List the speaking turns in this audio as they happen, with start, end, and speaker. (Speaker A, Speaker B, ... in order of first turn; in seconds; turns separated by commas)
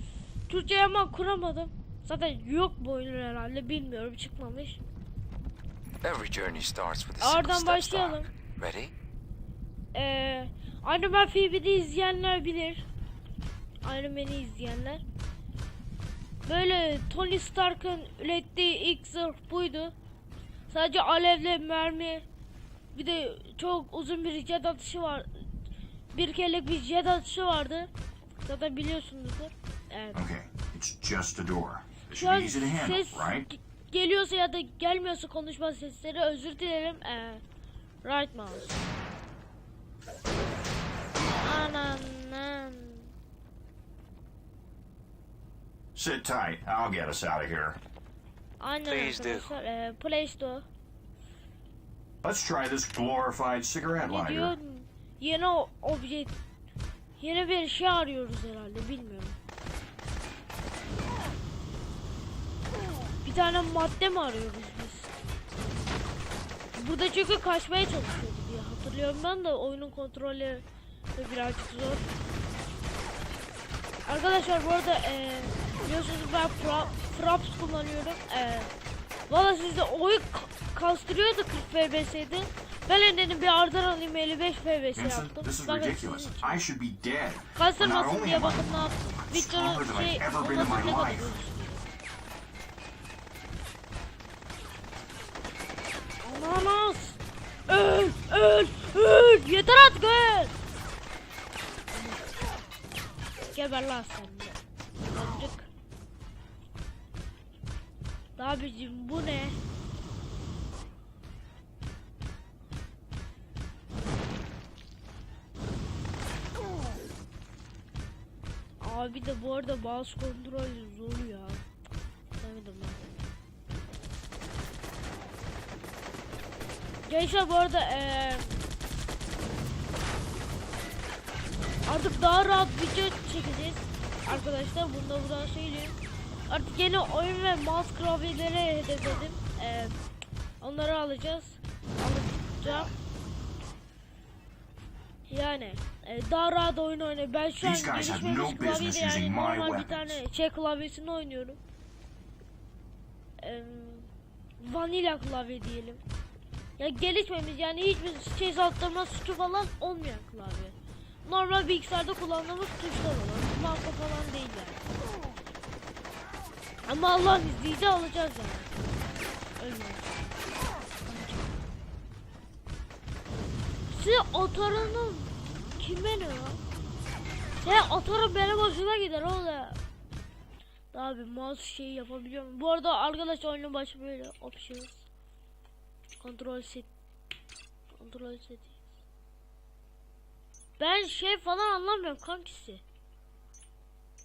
Speaker A: 0.5-4.8, Speaker B: 6.0-8.9, Speaker A: 7.2-8.3, Speaker A: 9.9-12.8, Speaker A: 13.8-15.0, Speaker A: 16.4-19.9, Speaker A: 20.7-22.2, Speaker A: 22.9-25.3, Speaker A: 26.1-27.9, Speaker A: 28.4-30.2, Speaker C: 30.1-33.5, Speaker A: 32.1-37.4, Speaker A: 38.0-38.8, Speaker A: 41.4-43.1, Speaker C: 45.9-47.8, Speaker A: 48.6-50.6, Speaker B: 48.9-49.5, Speaker C: 52.2-54.5, Speaker A: 54.0-56.3, Speaker A: 57.2-59.4, Speaker A: 63.2-65.1, Speaker A: 66.7-72.0, Speaker A: 74.0-78.7, Speaker A: 79.3-86.6, Speaker C: 85.0-91.4, Speaker A: 87.5-91.8, Speaker A: 96.2-100.5, Speaker A: 101.9-102.2, Speaker A: 103.5-104.6, Speaker A: 105.1-105.7, Speaker A: 108.4-109.6, Speaker A: 118.8-121.6, Speaker A: 122.4-123.0, Speaker A: 127.0-128.6, Speaker A: 131.9-135.9, Speaker A: 136.5-139.9, Speaker A: 140.6-142.9, Speaker A: 145.3-151.6, Speaker C: 147.6-150.2, Speaker A: 153.4-156.0, Speaker A: 156.8-164.8, Speaker A: 166.8-168.7, Speaker A: 169.6-170.1, Speaker A: 171.0-171.5, Speaker A: 173.9-176.6, Speaker A: 177.6-179.8, Speaker A: 180.9-185.1, Speaker A: 186.2-186.9, Speaker A: 187.9-188.8, Speaker A: 190.8-192.8